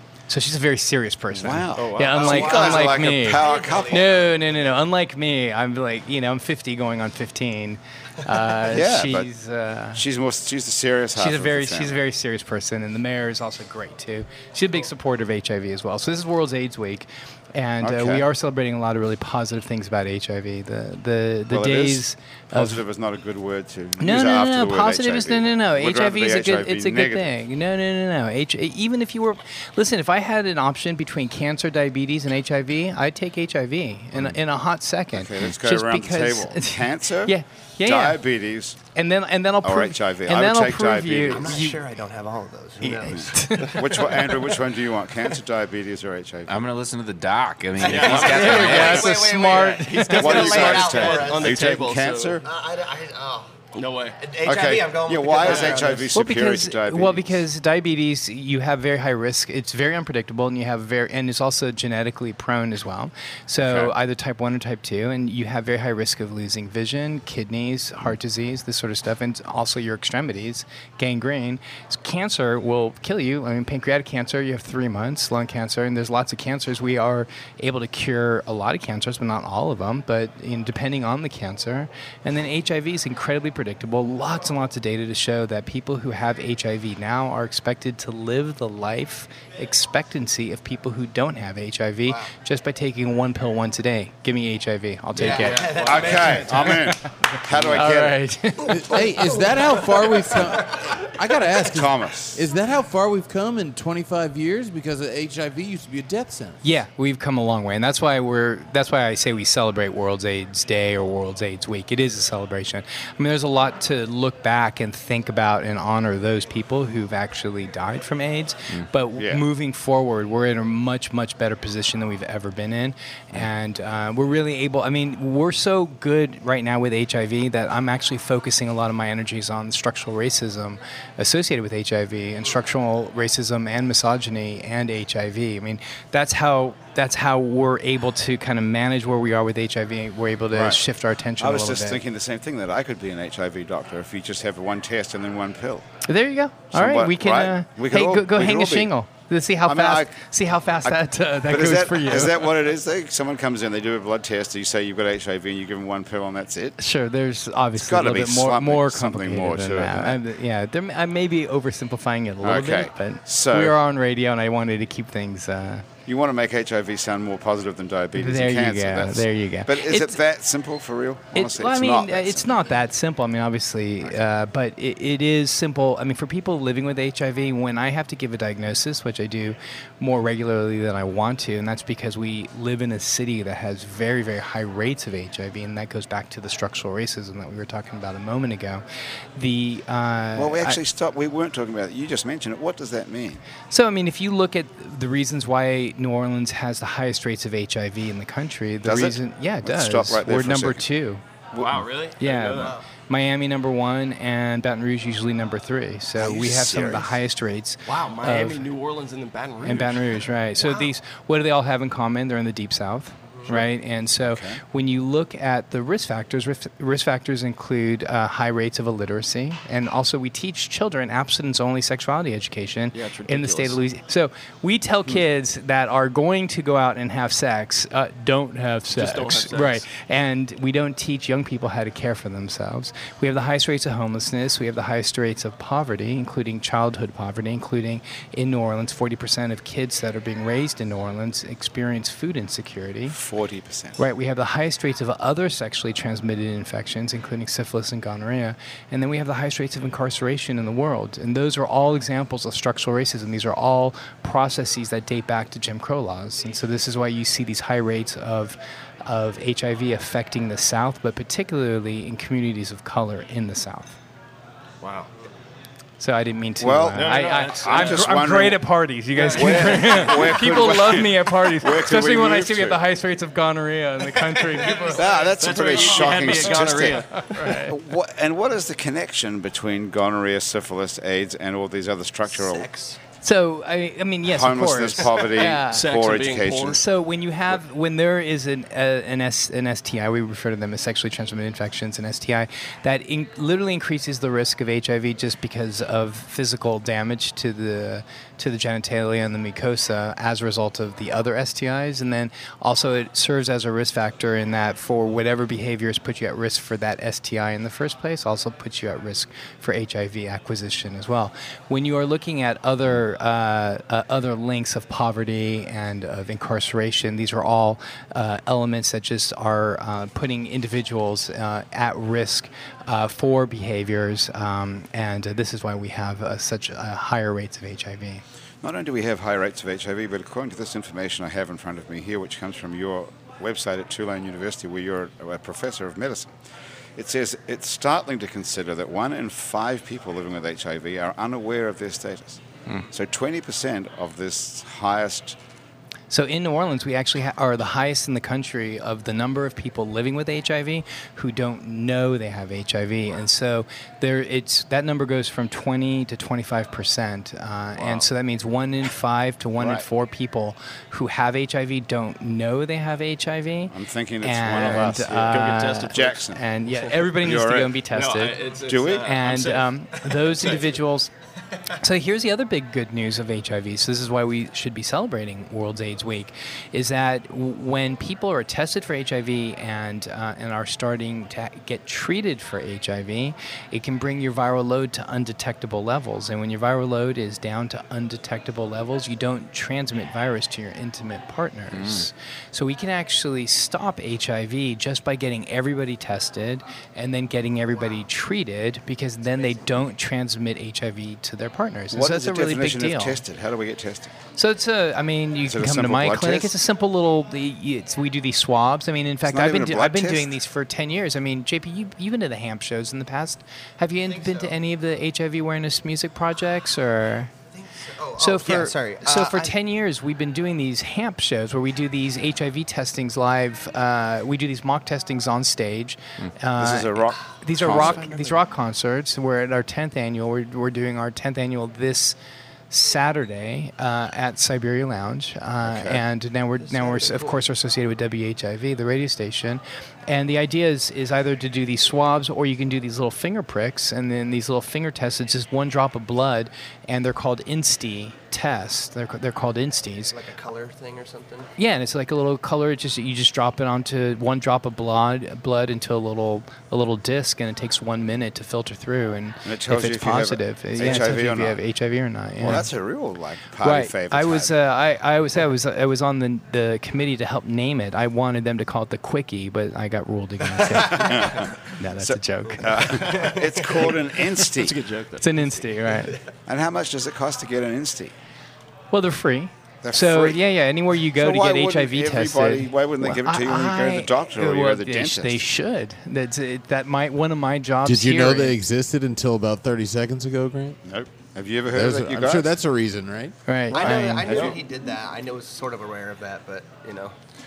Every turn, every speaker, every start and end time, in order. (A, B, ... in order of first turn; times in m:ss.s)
0:00.3-0:10.0 A
0:01.3-0:04.1 B
0:02.1-0:04.1 C
0:08.6-0:09.3 B
0:09.9-0:12.0 B
0:11.2-0:22.8 A
0:17.8-0:18.3 B
0:21.5-0:27.3 B
0:24.0-0:38.2 A
0:35.1-0:38.8 B
0:38.9-0:41.8 A
0:39.6-0:41.6 B
0:41.3-0:43.9 C
0:42.8-0:44.3 A
0:43.1-0:46.6 B
0:46.5-0:49.1 D
0:47.8-0:51.7 C
0:47.8-0:49.0 E
0:47.8-0:48.9 B
0:48.2-0:50.8 A
0:49.9-0:52.4 E
0:50.1-0:52.4 B
0:52.4-0:53.5 C
0:53.7-0:54.2 E
0:54.2-0:56.1 C
0:54.4-0:57.4 B
0:55.4-0:55.8 E
0:56.1-1:39.0 A
1:03.6-1:03.9 B
1:35.2-1:36.9 C
1:35.3-1:36.7 E
1:35.7-1:38.2 B
1:38.6-1:41.0 C
1:38.7-1:46.6 F
1:41.6-1:42.5 B
1:46.6-2:22.0 A
1:59.2-1:59.4 B
2:20.5-2:20.8 B
2:21.4-2:25.9 B
2:26.0-2:32.5 A
2:26.7-2:28.9 B
2:29.6-2:30.1 B
2:30.8-2:36.8 B
2:36.8-2:45.8 A
2:37.8-2:40.2 B
2:42.4-2:43.8 B
2:46.0-2:52.7 B
2:48.1-2:50.2 A
2:51.3-3:08.8 A
3:09.4-3:10.8 A
3:10.4-3:13.4 B
3:13.7-3:21.2 A
3:18.8-3:20.9 B
3:21.5-3:21.8 B
3:21.6-3:22.8 E
3:22.2-3:28.6 A
3:26.2-3:27.2 B
3:27.8-3:30.3 E
3:29.6-4:03.2 A
3:34.2-3:34.6 B
3:42.9-3:43.8 E
3:48.9-3:49.8 E
4:03.1-4:04.0 B
4:04.0-4:24.0 A
4:24.8-4:25.1 E
4:26.0-4:35.1 A
4:26.6-4:28.6 B
4:26.9-4:28.0 E
4:29.2-4:30.2 E
4:29.2-4:32.8 B
4:34.6-4:37.5 E
4:34.9-4:42.7 B
4:36.3-4:37.7 A
4:42.3-4:43.0 C
4:43.2-4:45.8 A
4:44.2-4:46.8 B
4:45.7-4:46.8 E
4:46.7-5:28.2 A
5:28.6-5:36.3 B
5:37.0-5:45.4 B
5:46.1-6:08.4 A
5:59.6-5:59.8 B
6:03.7-6:06.4 B
6:04.5-6:07.0 E
6:07.0-6:07.8 B
6:07.9-6:10.8 E
6:08.6-6:09.2 B
6:09.0-6:11.1 A
6:11.8-6:43.2 A
6:31.7-6:32.0 D
6:41.9-6:44.1 B
6:44.3-6:57.3 A
6:45.4-6:46.5 B
6:49.2-6:50.3 B
6:54.0-6:54.5 C
6:57.5-6:59.5 C
6:58.2-7:12.2 A
7:06.6-7:08.1 B
7:07.6-7:08.4 C
7:12.7-7:30.2 A
7:15.6-7:16.0 B
7:16.6-7:17.4 C
7:30.1-7:31.5 C
7:31.6-7:42.7 A
7:39.4-7:41.6 B
7:42.4-7:44.6 B
7:43.6-7:53.1 A
7:50.9-7:54.8 B
7:53.1-7:53.9 C
7:54.4-7:55.5 E
7:55.2-7:56.2 A
7:56.4-7:58.1 B
7:58.9-8:08.6 A
7:59.8-8:00.4 B
8:01.0-8:05.5 B
8:07.8-8:10.8 F
8:10.8-8:12.5 B
8:11.7-8:13.3 F
8:13.4-8:14.5 A
8:13.7-8:17.1 C
8:14.2-8:14.6 B